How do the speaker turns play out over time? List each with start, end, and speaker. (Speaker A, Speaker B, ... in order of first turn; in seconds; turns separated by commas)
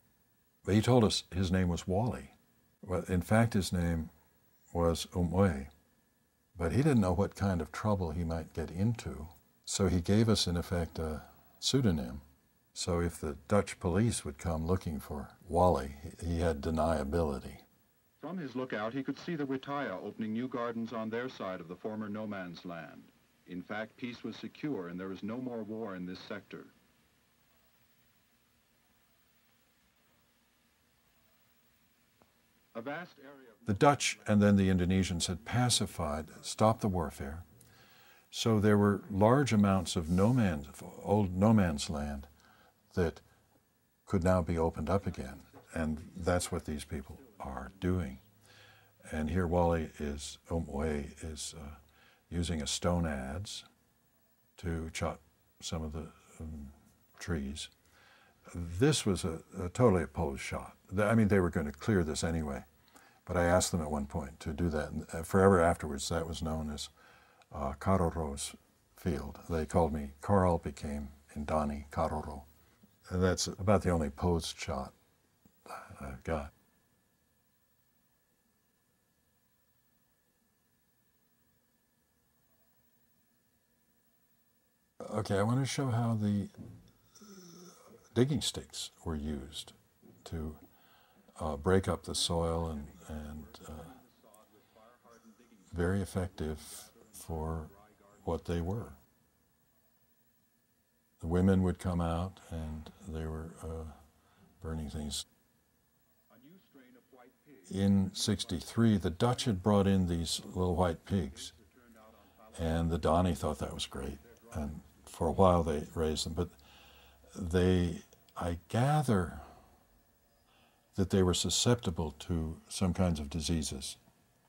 Speaker A: 0.6-4.1, Speaker A: 4.7-5.7, Speaker A: 6.5-12.2, Speaker A: 12.8-17.6, Speaker B: 18.2-26.7, Speaker B: 32.7-34.4, Speaker A: 33.6-37.4, Speaker A: 38.3-42.3, Speaker A: 42.9-43.2, Speaker A: 44.1-48.2, Speaker B: 45.3-47.7, Speaker A: 49.1-53.6, Speaker A: 54.6-57.7, Speaker A: 58.5-62.7, Speaker A: 63.2-66.9, Speaker A: 67.5-72.5, Speaker A: 73.1-74.9, Speaker A: 75.7-76.5, Speaker A: 85.0-86.5, Speaker A: 88.1-90.6, Speaker A: 91.4-94.0, Speaker B: 93.0-95.7, Speaker A: 95.7-99.0, Speaker B: 96.7-98.0, Speaker A: 101.2-104.0, Speaker A: 104.6-105.2, Speaker B: 106.3-109.3, Speaker A: 107.7-111.5, Speaker B: 111.5-112.8, Speaker A: 112.5-116.5, Speaker B: 114.2-114.8, Speaker A: 117.3-119.5, Speaker A: 120.9-124.0